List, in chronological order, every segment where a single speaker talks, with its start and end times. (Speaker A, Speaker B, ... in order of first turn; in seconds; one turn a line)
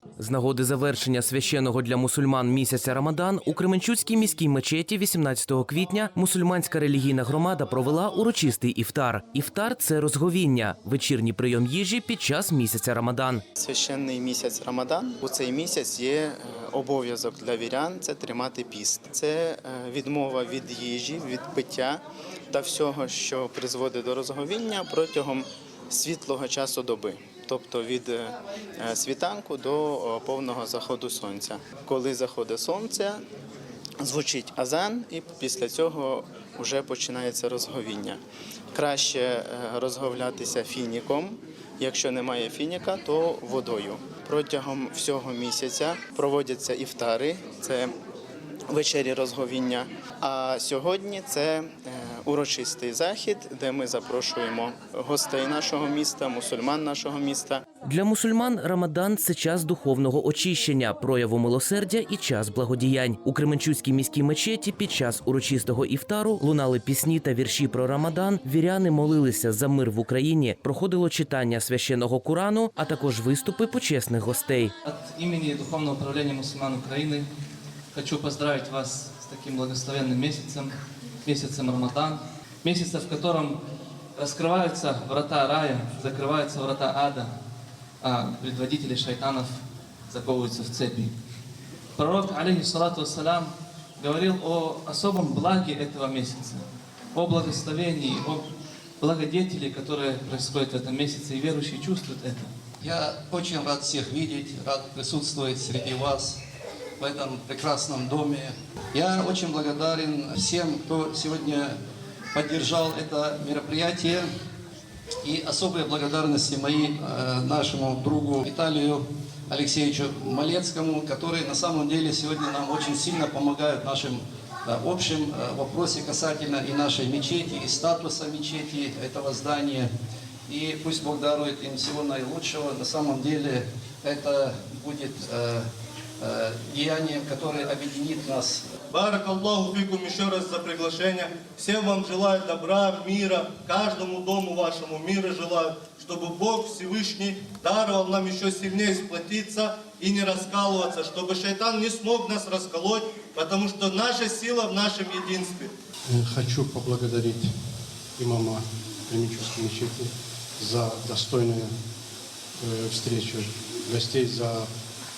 Speaker A: 0.2-13.4
Speaker B: 13.6-33.2
Speaker B: 34.0-38.2
Speaker B: 38.7-47.9
Speaker B: 48.7-57.6
Speaker A: 57.9-74.7
Speaker C: 74.9-77.3
Speaker C: 78.0-80.7
Speaker C: 81.3-83.6
Speaker C: 84.2-87.3
Speaker C: 88.0-91.1
Speaker C: 92.0-96.6
Speaker C: 97.2-98.4
Speaker C: 99.0-102.5
Speaker D: 102.8-106.4
Speaker D: 107.0-111.8
Speaker D: 112.3-114.3
Speaker D: 115.2-129.9
Speaker D: 130.5-135.7
Speaker D: 136.2-138.6
Speaker E: 138.9-155.7
Speaker F: 156.1-157.6
Speaker F: 158.2-161.8
Speaker F: 162.6-164.7